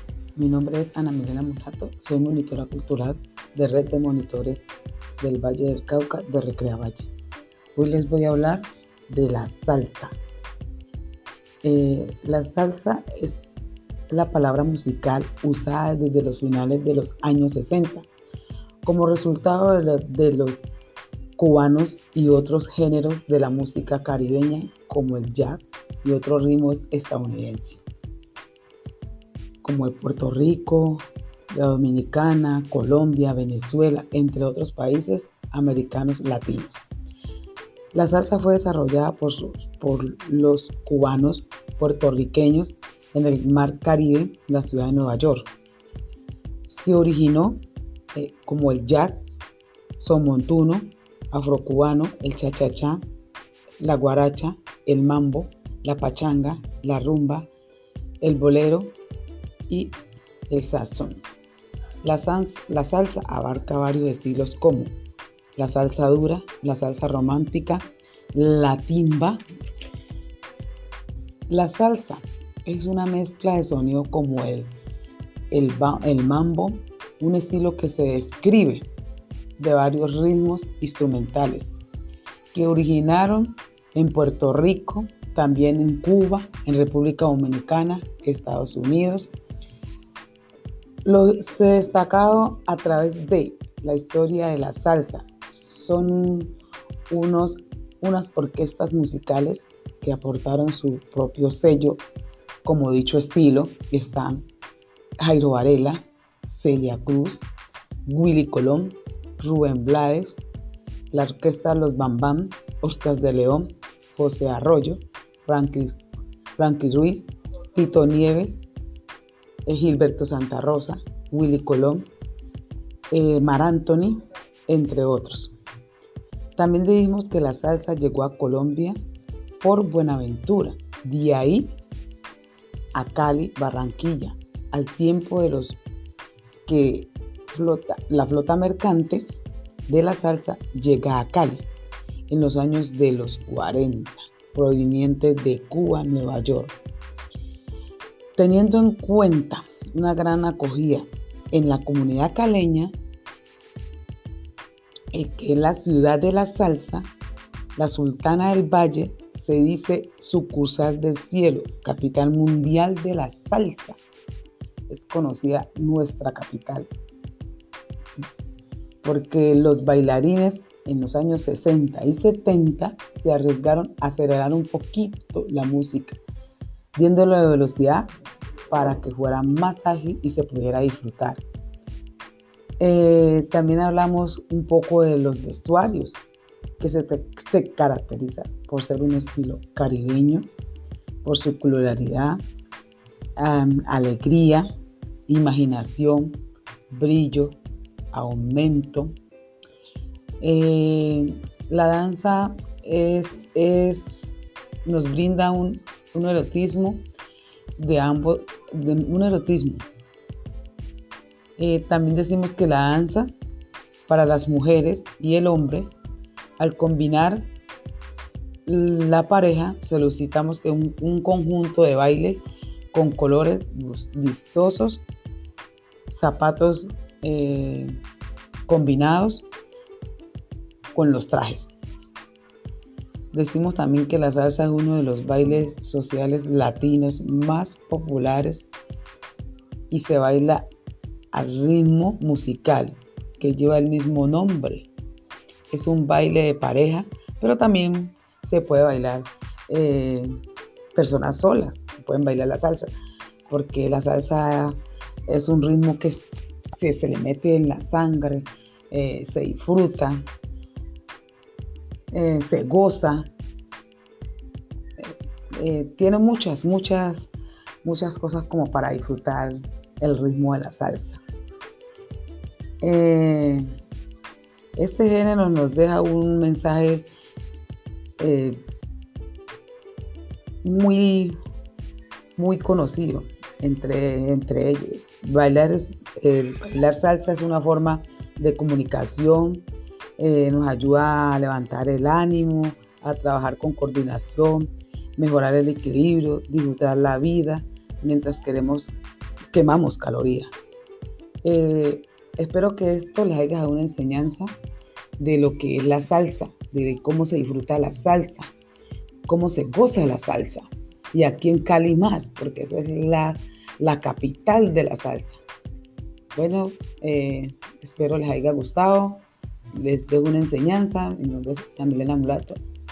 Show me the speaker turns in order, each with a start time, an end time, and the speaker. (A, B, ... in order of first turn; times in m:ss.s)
0:00.4-0:04.7 A
0:05.2-0:07.1 A
0:07.7-0:10.1 A
0:11.6-0:13.4 A
0:14.1-0:18.1 A
0:18.8-0:20.6 A
0:21.4-0:27.8 A
0:29.6-0:36.8 A
0:37.9-0:45.5 A
0:46.7-0:47.6 A
0:48.1-0:49.3 A
0:50.0-0:53.0 A
0:53.8-0:57.5 A
0:58.2-0:58.9 A
0:59.7-1:00.0 A
1:00.5-1:01.2 A
1:02.0-1:04.9 A
1:05.6-1:09.4 A
1:11.5-1:14.7 A
1:15.5-1:18.8 A
1:19.6-1:21.7 A
1:22.5-1:29.3 A
1:31.0-1:36.5 A
1:37.1-1:42.0 A
1:42.6-1:44.4 A
1:45.2-1:47.5 A
1:48.0-1:50.4 A
1:51.1-1:56.0 A
1:56.6-1:58.6 A
1:59.6-2:02.0 A
2:03.1-2:05.5 A
2:06.6-2:09.0 A
2:09.6-2:11.7 A
2:12.9-2:15.8 A
2:16.6-2:19.2 A
2:19.9-2:21.6 A
2:22.3-2:26.7 A
2:28.4-2:32.9 A
2:35.1-2:37.1 A
2:37.8-2:44.0 A
2:44.9-2:46.9 A
2:49.0-2:56.2 A
2:56.9-2:58.1 A
2:58.7-3:01.4 A
3:02.8-3:06.2 A
3:06.8-3:10.5 A
3:11.2-3:12.4 A
3:13.4-3:14.7 A
3:15.3-3:16.4 A
3:16.9-3:17.6 A
3:18.1-3:19.1 A
3:20.4-3:27.0 A
3:27.8-3:29.8 A
3:31.6-3:33.3 A
3:34.1-3:35.9 A
3:36.6-3:37.5 A
3:38.6-3:42.4 A
3:42.9-3:45.0 A
3:46.1-3:47.9 A
3:48.7-3:49.4 A
3:50.9-3:51.7 A
3:53.3-3:58.7 A
3:59.9-4:00.6 A
4:01.3-4:04.9 A
4:05.7-4:10.3 A
4:10.9-4:12.9 A
4:13.5-4:14.8 A
4:15.3-4:20.2 A
4:22.1-4:23.3 A
4:25.0-4:27.3 A
4:27.8-4:31.2 A
4:32.8-4:33.6 A
4:34.8-4:37.1 A
4:38.2-4:38.6 A
4:40.6-4:41.4 A
4:42.4-4:49.6 A
4:50.2-4:58.9 A
4:59.5-5:00.5 A
5:01.4-5:04.5 A
5:05.2-5:08.5 A
5:09.3-5:15.4 A
5:16.3-5:22.6 A